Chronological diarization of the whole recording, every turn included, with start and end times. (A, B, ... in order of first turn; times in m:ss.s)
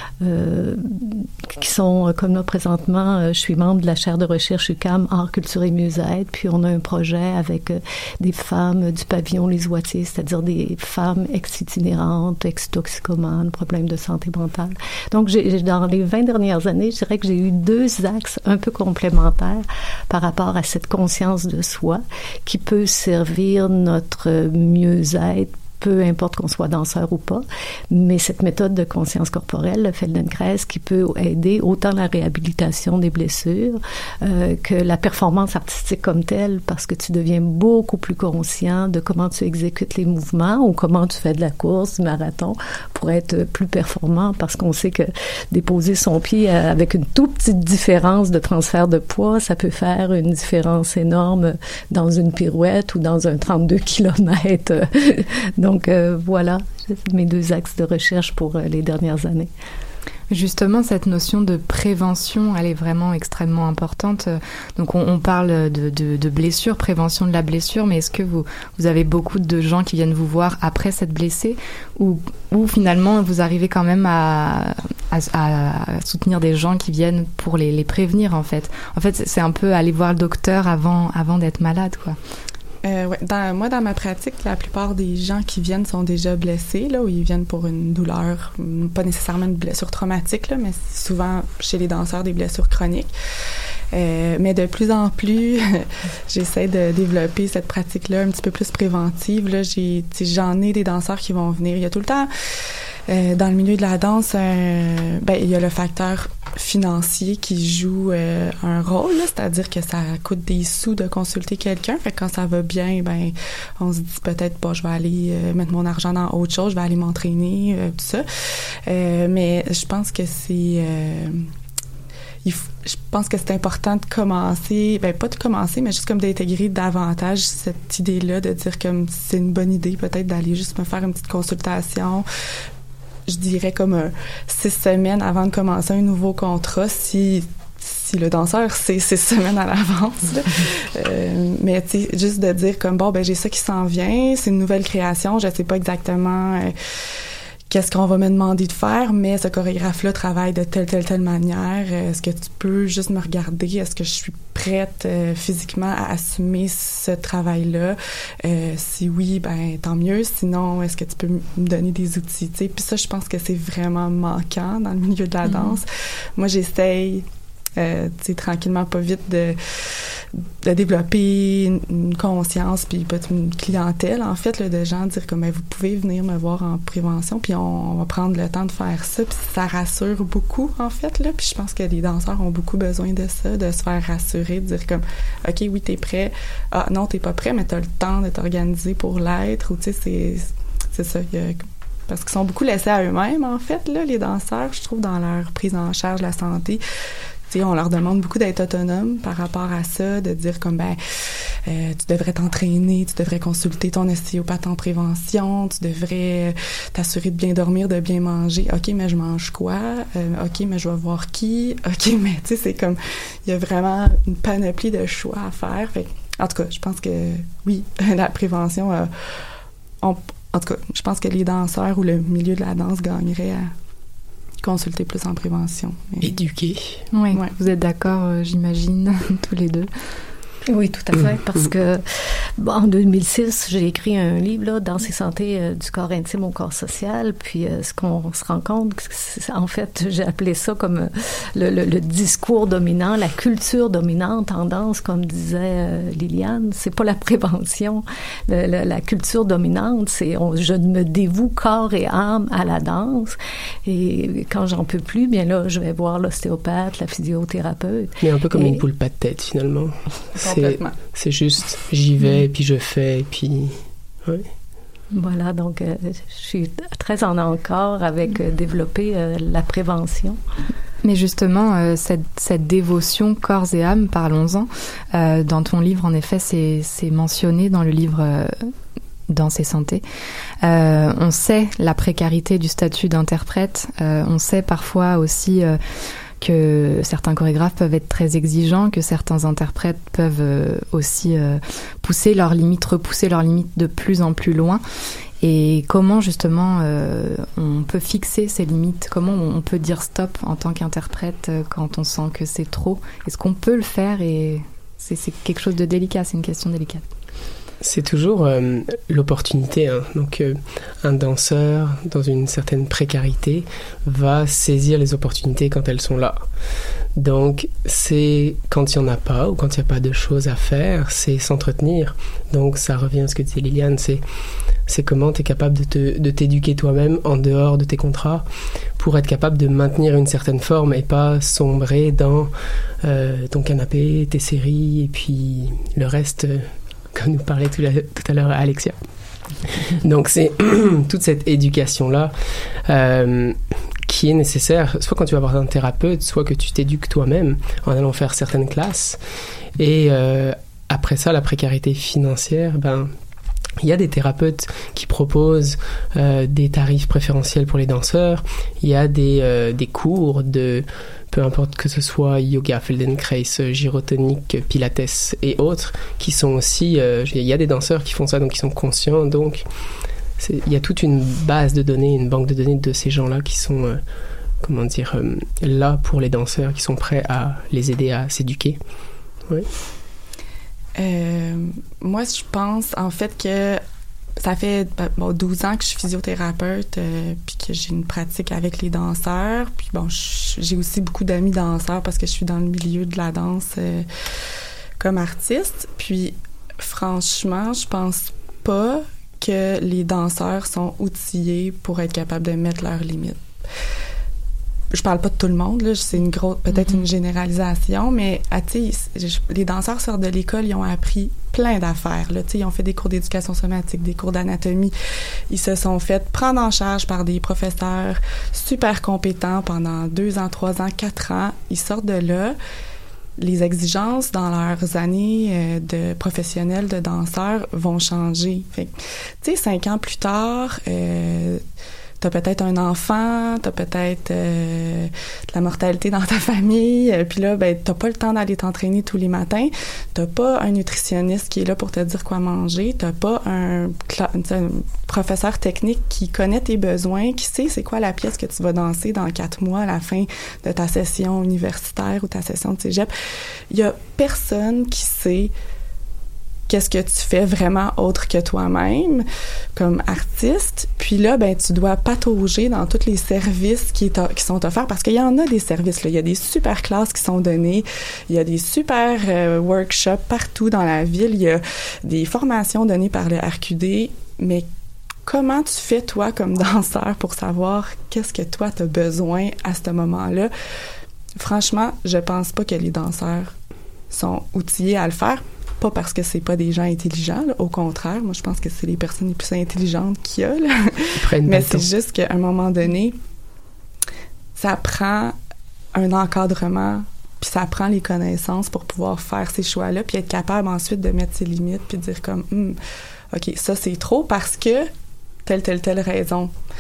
0:00.2-0:59.5 A
1:00.3-1:22.2 B
1:22.8-1:33.1 C
1:33.9-1:42.3 C
1:43.1-1:58.3 C
1:58.9-2:01.5 C
2:02.4-2:12.3 C
2:13.3-2:26.7 C
2:27.7-2:47.2 C
2:45.4-2:45.8 B
2:47.8-2:49.6 C
2:50.6-3:16.8 C
3:17.5-3:21.0 C
3:21.7-3:39.1 C
3:40.0-3:43.7 C
3:44.6-3:46.3 C
3:46.2-3:47.0 D
3:47.1-3:49.9 B
3:50.7-3:52.0 A
3:52.6-4:18.8 A
4:18.2-4:24.5 D
4:20.4-4:21.0 C
4:25.1-4:30.4 A
4:31.0-4:38.7 B
4:39.3-4:40.0 B
4:40.6-4:45.8 B
4:46.4-4:54.8 B
4:55.4-5:07.0 B
5:07.8-5:16.4 D
5:17.2-5:24.2 D
5:24.9-5:28.4 D
5:29.0-5:32.5 D
5:33.0-5:39.0 D
5:39.7-5:42.3 D
5:42.9-5:49.2 D
5:49.8-5:53.1 D
5:53.8-6:09.6 D
6:10.4-6:14.0 D
6:14.6-6:18.8 D
6:21.0-6:23.8 C
6:24.4-6:34.1 C
6:35.0-6:43.4 C
6:44.9-6:54.9 C
6:46.7-6:47.1 B
6:55.5-7:02.6 C
7:03.4-7:11.6 C
7:12.2-7:33.1 C
7:33.7-7:35.5 C
7:36.7-7:54.7 C
7:55.3-8:00.5 C
8:01.4-8:03.5 C
8:04.1-8:10.9 C
8:11.2-8:11.9 D
8:11.5-8:13.2 C
8:14.6-8:15.4 C
8:15.9-8:22.8 C
8:23.3-8:24.9 C
8:25.5-8:26.5 C